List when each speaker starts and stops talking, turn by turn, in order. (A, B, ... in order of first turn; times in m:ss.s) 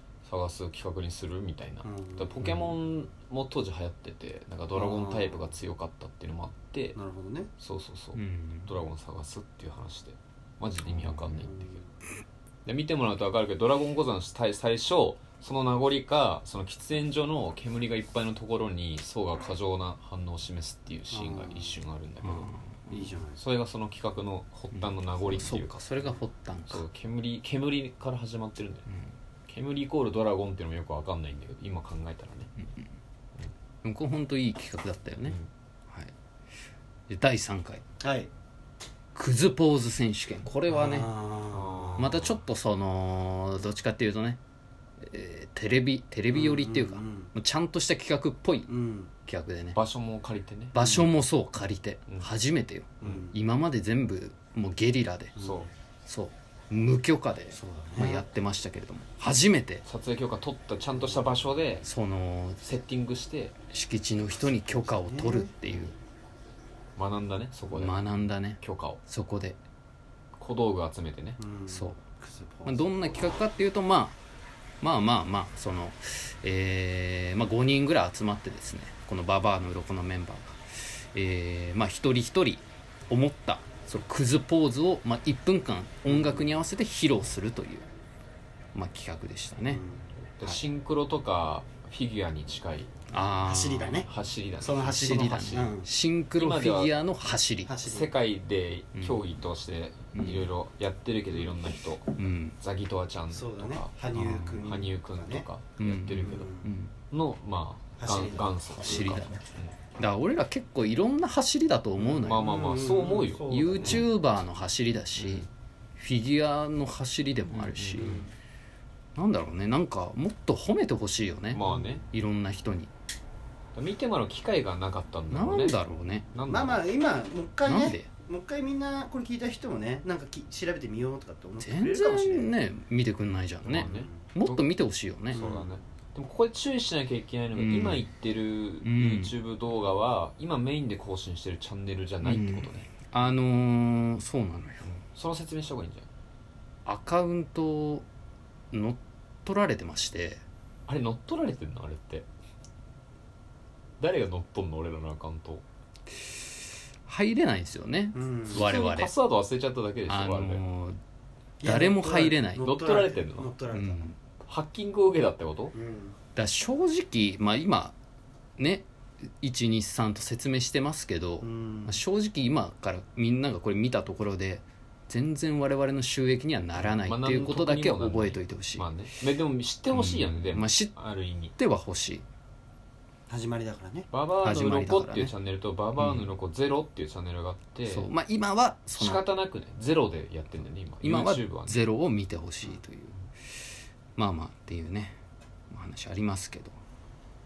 0:00.2-0:07.0 A
0:01.8-0:02.8 B
0:04.7-0:05.5 B
0:07.0-0:07.5 B
0:07.6-0:11.8 A
0:08.2-0:08.7 C
0:10.9-0:11.4 C
0:11.3-0:11.9 B
0:12.7-0:22.5 A
0:21.1-0:21.8 B
0:22.2-0:23.2 C
0:22.9-0:23.4 B
0:23.4-0:25.7 A
0:24.7-0:26.8 C
0:26.7-0:28.9 A
0:29.5-0:32.5 A
0:33.8-0:35.4 C
0:37.1-0:37.8 C
0:38.0-0:38.3 B
0:39.2-0:41.1 C
0:40.7-0:42.1 B
0:41.5-0:42.4 A
0:42.0-0:44.4 C
0:45.0-0:48.7 C
0:46.3-0:47.3 B
0:48.7-0:49.1 B
0:49.2-0:49.8 C
0:49.8-0:50.8 A
0:50.7-0:55.4 C
0:50.8-0:51.1 B
0:53.0-0:53.4 B
0:55.4-0:55.7 B
0:55.4-0:55.7 A
0:56.1-0:59.8 C
0:57.5-0:58.2 B
0:59.8-1:01.9 A
1:01.8-1:02.7 C
1:02.6-1:03.6 A
1:03.7-1:06.0 C
1:04.5-1:05.5 B
1:07.0-1:08.0 A
1:07.7-1:09.6 C
1:08.6-1:09.0 A
1:10.4-1:11.4 A
1:11.4-1:13.2 B
1:11.7-1:12.0 C
1:12.6-1:14.2 C
1:14.8-1:27.9 C
1:26.1-1:26.5 B
1:28.7-1:29.8 C
1:29.7-1:30.1 B
1:30.4-1:32.9 A
1:33.1-1:34.1 C
1:33.4-1:35.9 B
1:34.0-1:35.7 A
1:34.8-1:37.7 C
1:36.4-1:37.0 A
1:37.7-1:38.1 B
1:37.8-1:46.5 A
1:39.0-1:39.2 C
1:40.1-1:40.5 C
1:42.2-1:42.6 C
1:43.3-1:45.5 B
1:44.1-1:44.6 C
1:45.8-1:46.9 C
1:46.2-1:46.7 B
1:47.1-1:49.7 A
1:48.0-1:49.2 B
1:48.8-1:49.4 C
1:50.0-1:52.5 C
1:52.0-1:54.0 B
1:52.2-1:54.0 A
1:53.5-1:58.2 C
1:55.2-1:55.5 A
1:57.5-1:58.3 A
1:58.0-1:58.3 B
1:59.2-2:02.9 C
2:01.5-2:02.0 A
2:01.6-2:02.0 B
2:03.8-2:06.8 A
2:05.3-2:06.3 C
2:06.5-2:12.5 B
2:07.7-2:08.1 C
2:11.6-2:15.4 C
2:13.6-2:14.6 A
2:13.8-2:14.1 B
2:15.3-2:22.9 A
2:15.3-2:15.8 B
2:17.6-2:18.0 C
2:18.8-2:19.4 C
2:22.2-2:24.9 C
2:24.8-2:26.1 A
2:26.9-2:28.1 C
2:28.7-2:30.4 C
2:30.9-2:32.3 A
2:34.0-2:35.6 A
2:37.0-2:39.1 C
2:38.1-2:38.8 B
2:38.5-2:40.6 A
2:40.1-2:41.0 C
2:41.6-2:44.1 B
2:41.6-2:42.7 C
2:42.6-2:43.5 A
2:43.7-2:44.2 C
2:44.4-2:45.7 A
2:45.7-2:46.2 B
2:46.4-2:48.0 C
2:48.6-2:48.9 C
2:49.4-2:58.9 C
2:51.4-2:52.0 B
2:56.8-3:01.5 A
2:59.9-3:00.9 C
3:01.6-3:02.2 C
3:03.3-3:04.1 B
3:04.1-3:08.1 A
3:04.4-3:05.3 C
3:06.0-3:06.3 C
3:07.9-3:09.3 C
3:09.0-3:11.8 A
3:11.0-3:13.2 C
3:14.2-3:15.2 C
3:15.7-3:16.8 C